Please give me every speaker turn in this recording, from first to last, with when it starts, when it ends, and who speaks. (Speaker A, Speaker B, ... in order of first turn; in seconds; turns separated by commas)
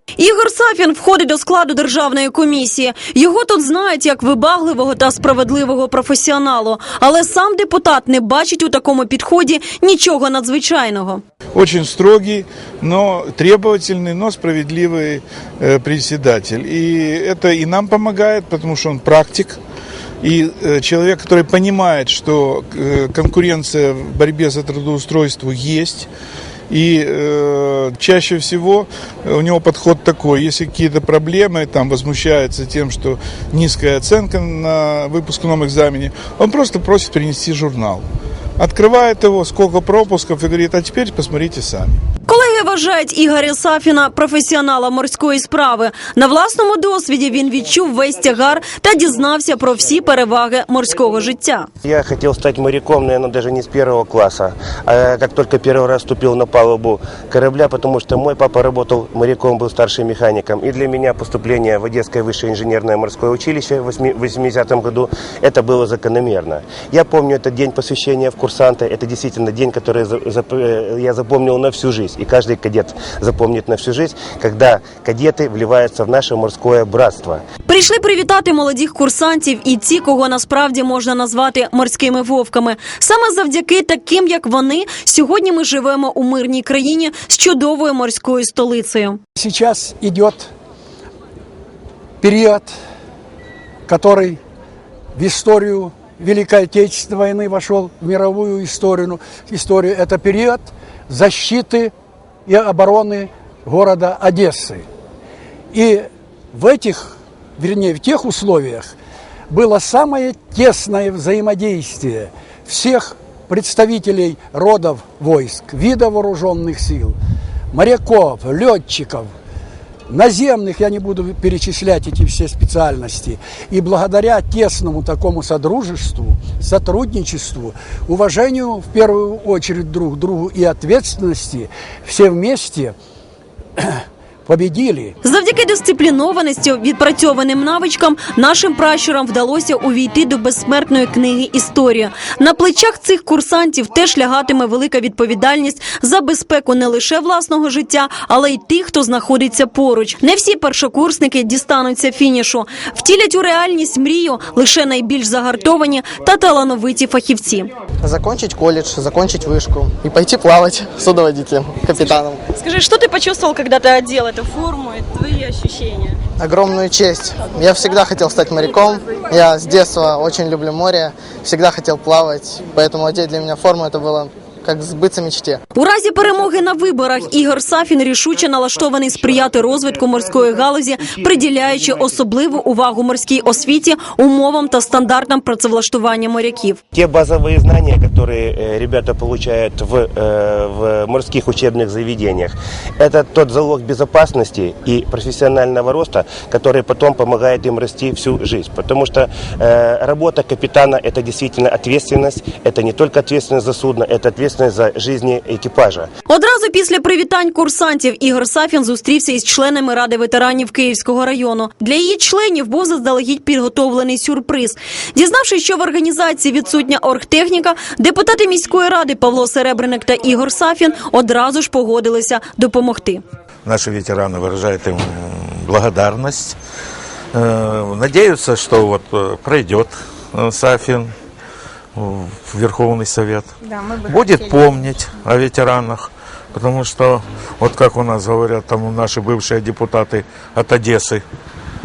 Speaker A: 0.2-11.2, Speaker B: 11.6-19.6, Speaker B: 20.2-26.1, Speaker B: 26.7-38.1, Speaker B: 38.6-42.0, Speaker A: 42.3-51.7, Speaker C: 51.8-77.4, Speaker A: 77.7-89.2, Speaker D: 89.4-90.5, Speaker D: 92.2-92.7, Speaker D: 93.9-94.4, Speaker D: 95.2-101.9, Speaker D: 102.5-104.8, Speaker D: 105.7-108.9, Speaker D: 109.5-117.2, Speaker D: 117.7-119.3, Speaker D: 120.1-132.9, Speaker D: 133.8-135.2, Speaker A: 135.2-157.7, Speaker E: 158.0-162.4, Speaker A: 162.6-166.1, Speaker E: 166.4-175.6, Speaker A: 175.7-186.8, Speaker C: 186.9-206.1, Speaker A: 206.3-223.2, Speaker F: 223.7-226.6, Speaker F: 227.3-231.1, Speaker F: 232.0-233.5, Speaker F: 234.1-241.2